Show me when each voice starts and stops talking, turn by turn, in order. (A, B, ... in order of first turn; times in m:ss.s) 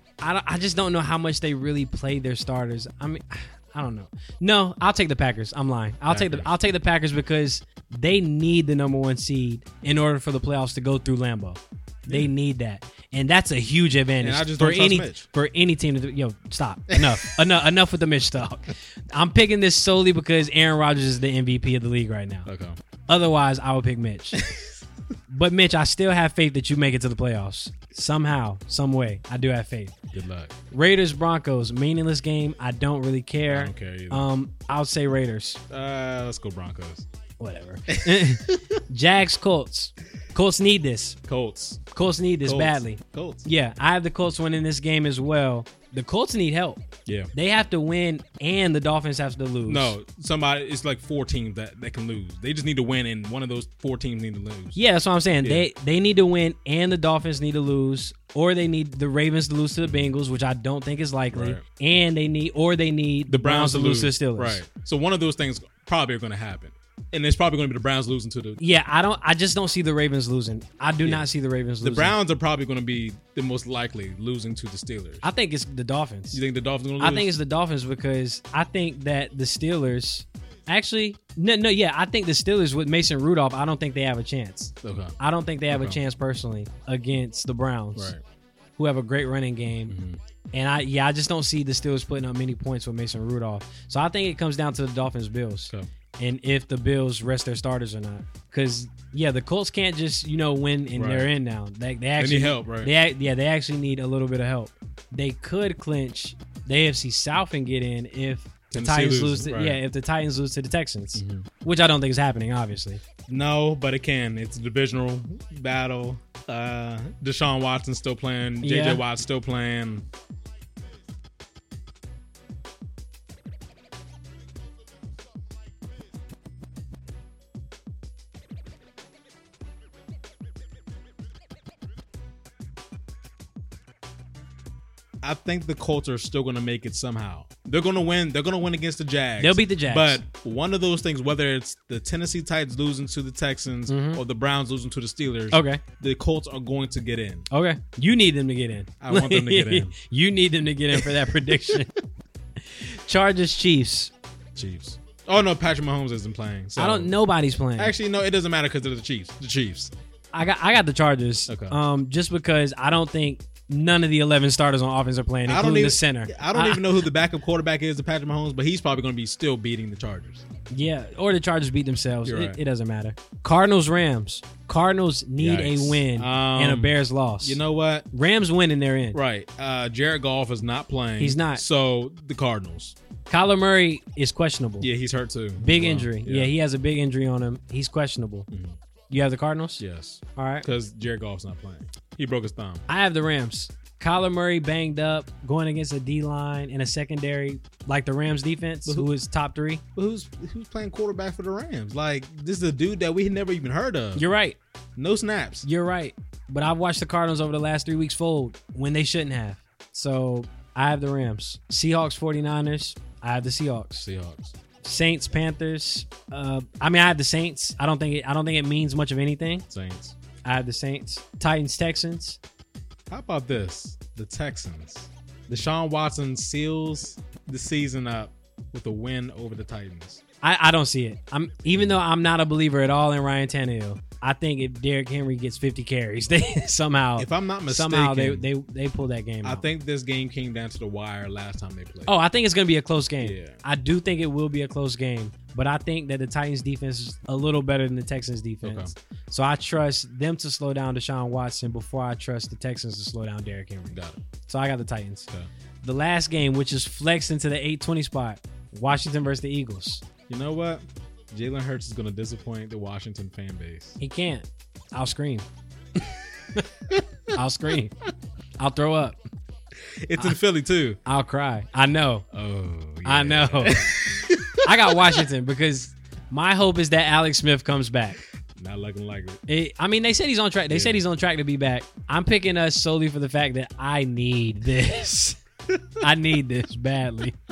0:00.2-0:22.5 A
0:06.1-0:06.5 B
0:14.2-0:15.3 B
0:16.9-0:17.4 B
0:22.5-0:22.8 B
0:23.1-0:24.4 A
0:24.4-0:24.7 B
0:25.3-0:29.9 A
0:30.1-0:30.5 B
0:30.7-0:35.6 A
0:33.5-0:34.3 B
0:35.7-0:37.1 B
0:37.4-0:41.2 A
0:37.9-0:38.6 B
0:41.3-0:41.9 B
0:41.9-0:46.8 A
0:42.4-0:43.5 B
0:47.1-0:47.3 B
0:47.3-0:50.0 A
0:49.7-0:54.8 B
0:54.8-1:04.6 A
0:55.4-0:55.7 B
0:59.8-1:00.1 B
1:01.3-1:01.6 B
1:03.3-1:08.6 B
1:08.6-1:12.2 A
1:11.8-1:15.2 B
1:15.2-1:16.4 A
1:16.3-1:17.3 B
1:17.0-1:28.2 A
1:24.8-1:25.2 B
1:25.7-1:26.0 B
1:28.0-1:28.2 B
1:28.8-1:30.0 A
1:29.9-1:30.2 B
1:30.5-1:53.0 A
1:40.9-1:41.3 B
1:42.2-1:42.9 B
1:48.7-1:49.8 B
1:51.2-1:51.5 B
1:53.3-2:00.1 B
1:58.6-1:59.0 A
2:15.2-2:27.5 B
2:19.4-2:20.2 A
2:23.9-2:24.2 A
2:25.5-2:25.8 A
2:27.5-2:31.9 A
2:29.0-2:29.9 B
2:30.9-2:31.8 B
2:32.8-2:34.1 A
2:34.6-2:37.1 B
2:36.8-2:38.0 A
2:37.8-2:39.9 B
2:40.3-2:46.8 A
2:41.5-2:41.8 B
2:45.5-2:50.4 B
2:50.7-2:57.6 A
2:52.2-2:52.6 B
2:55.4-2:58.1 B
2:58.1-2:59.2 A
2:59.1-3:03.0 B
3:01.2-3:01.6 A
3:03.3-3:04.9 A
3:04.8-3:06.5 B
3:05.6-3:08.5 A
3:08.5-3:08.8 B
3:09.1-3:09.8 A
3:09.8-3:12.8 B
3:10.4-3:10.7 A
3:12.9-3:19.8 A
3:20.0-3:24.2 B
3:24.2-3:24.6 A
3:25.0-3:25.7 B
3:25.6-3:34.1 A
3:34.0-3:34.6 B
3:34.8-3:39.7 A
3:39.7-3:40.2 B
3:40.4-3:42.4 A
3:43.1-3:50.2 B
3:50.4-3:59.6 A
3:57.2-3:58.5 B
3:59.4-4:02.1 B
4:02.1-4:15.3 A
4:03.2-4:03.6 B
4:08.6-4:08.9 B
4:13.9-4:14.2 B
4:15.8-4:20.0 A
4:20.3-4:24.0 B
4:24.0-4:25.5 A
4:27.3-4:27.9 A
4:28.6-4:29.2 A
4:29.8-4:31.0 B
4:31.0-4:32.3 A
4:32.3-4:35.2 B
4:33.0-4:34.0 A
4:34.6-4:38.2 A
4:38.6-4:39.4 B
4:39.5-4:45.4 A
4:40.7-4:41.0 B
4:46.0-4:47.4 A